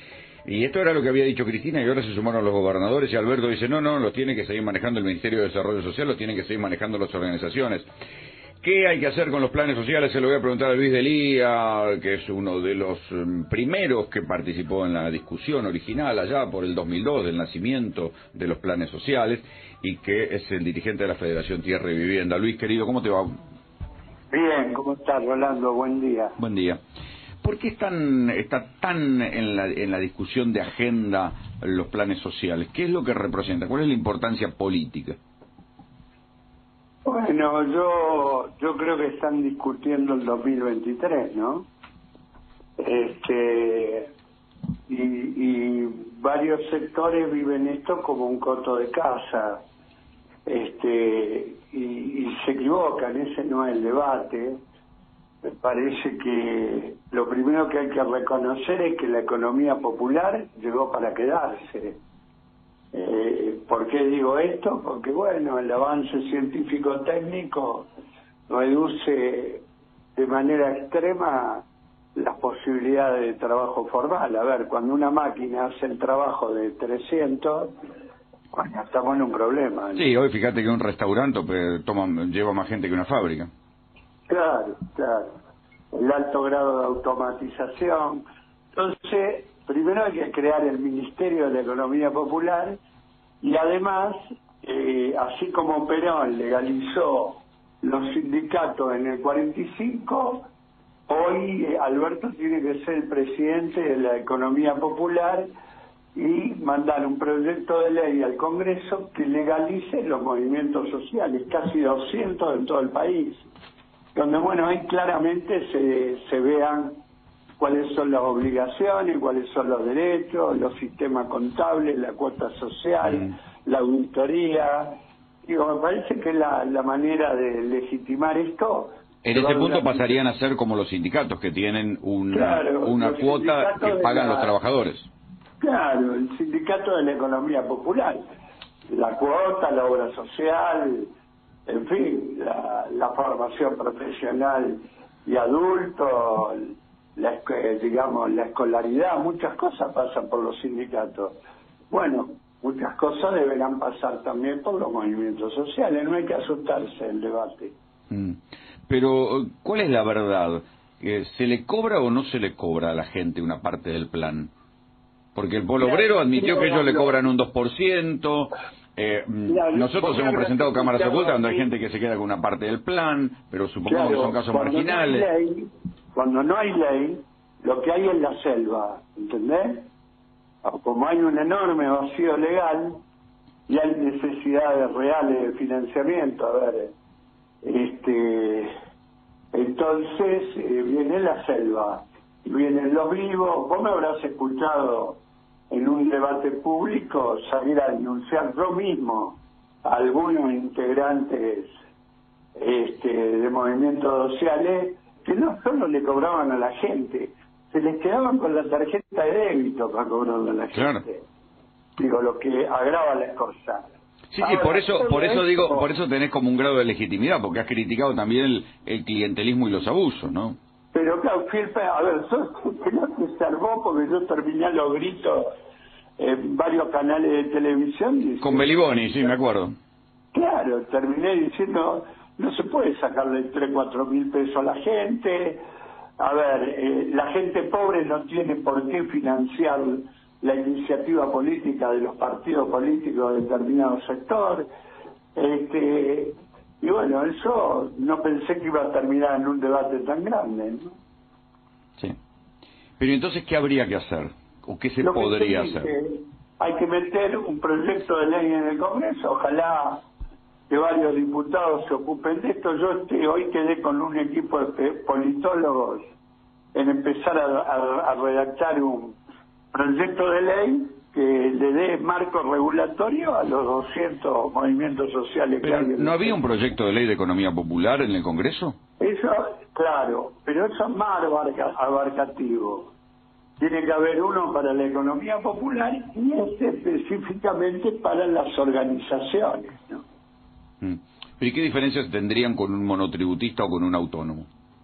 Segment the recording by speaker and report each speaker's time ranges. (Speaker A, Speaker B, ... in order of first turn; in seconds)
Speaker A: 0.4-7.9, 8.6-23.3, 26.4-26.8, 27.4-35.2, 80.0-83.5, 123.0-123.3, 129.2-135.1, 158.1-164.5, 165.3-175.3, 210.7-211.0, 214.3-220.6, 228.4-229.7, 253.0-255.9, 275.6-278.8, 290.8-294.5
Speaker B: 24.3-26.4, 37.0-41.7, 42.8-44.1, 44.9-49.6, 50.5-54.6, 55.4-62.0, 62.9-67.9, 68.5-69.6, 70.2-77.7, 78.5-80.1, 84.3-85.3, 85.9-88.2, 88.7-92.8, 93.4-100.5, 101.1-105.5, 106.1-113.5, 114.1-117.0, 117.6-130.2, 132.3-134.5, 135.6-138.2, 138.9-141.1, 141.7-151.3, 151.9-157.7, 165.8-167.3, 169.5-171.7, 173.9-179.9, 180.6-183.0, 183.7-186.9, 187.6-188.7, 189.5-195.2, 195.7-201.7, 202.6-211.2, 212.0-213.9, 214.4-215.9, 220.9-225.5, 226.2-228.7, 230.3-235.6, 236.2-244.7, 245.3-250.9, 255.0-260.0, 260.7-266.0, 266.7-269.2, 269.7-276.4, 279.0-282.9, 283.6-290.0